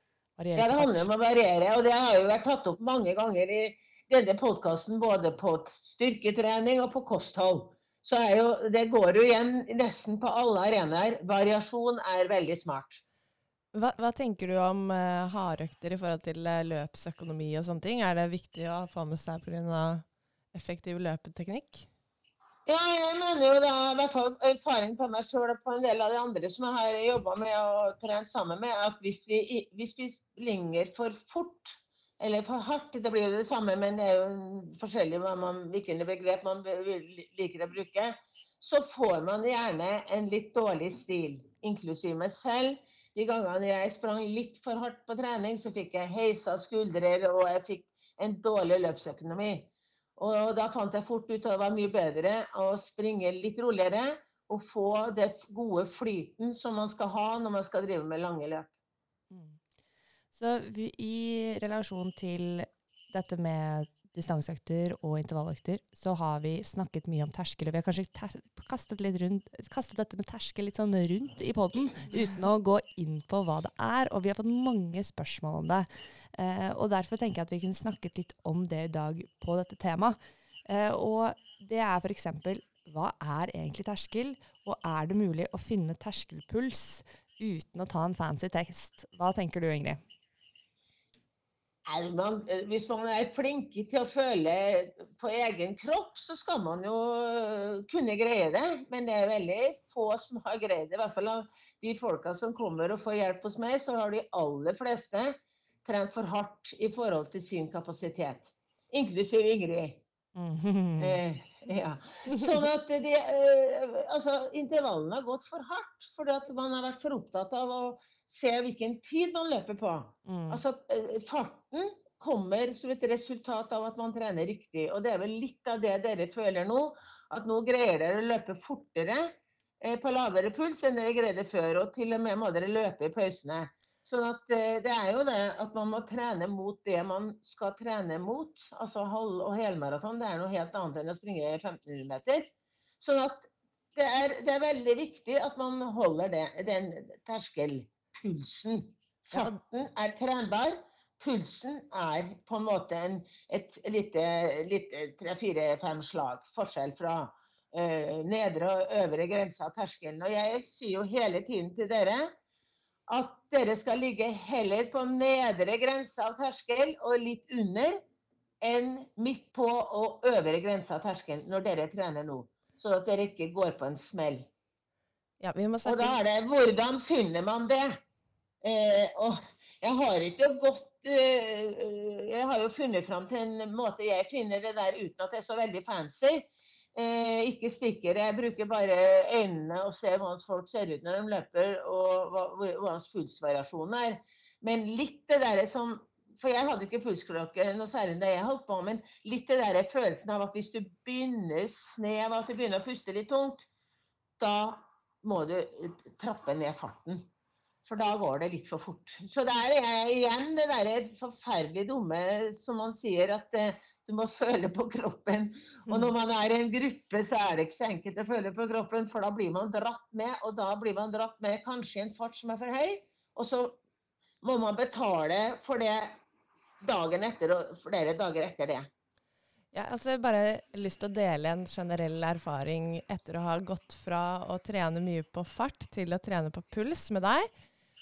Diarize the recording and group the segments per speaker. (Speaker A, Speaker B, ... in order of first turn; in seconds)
Speaker A: 0.4-1.1, 59.3-59.6, 60.3-90.0, 110.3-111.2, 120.3-120.6
Speaker B: 0.6-13.0, 22.7-58.7, 91.9-110.0, 111.0-142.5, 143.0-162.3, 163.1-168.0, 168.6-174.5, 175.8-178.0, 178.6-203.7, 204.4-207.2, 207.9-223.8, 224.4-226.2, 226.8-228.9
Speaker C: 13.7-21.9, 175.4-176.2, 229.7-237.5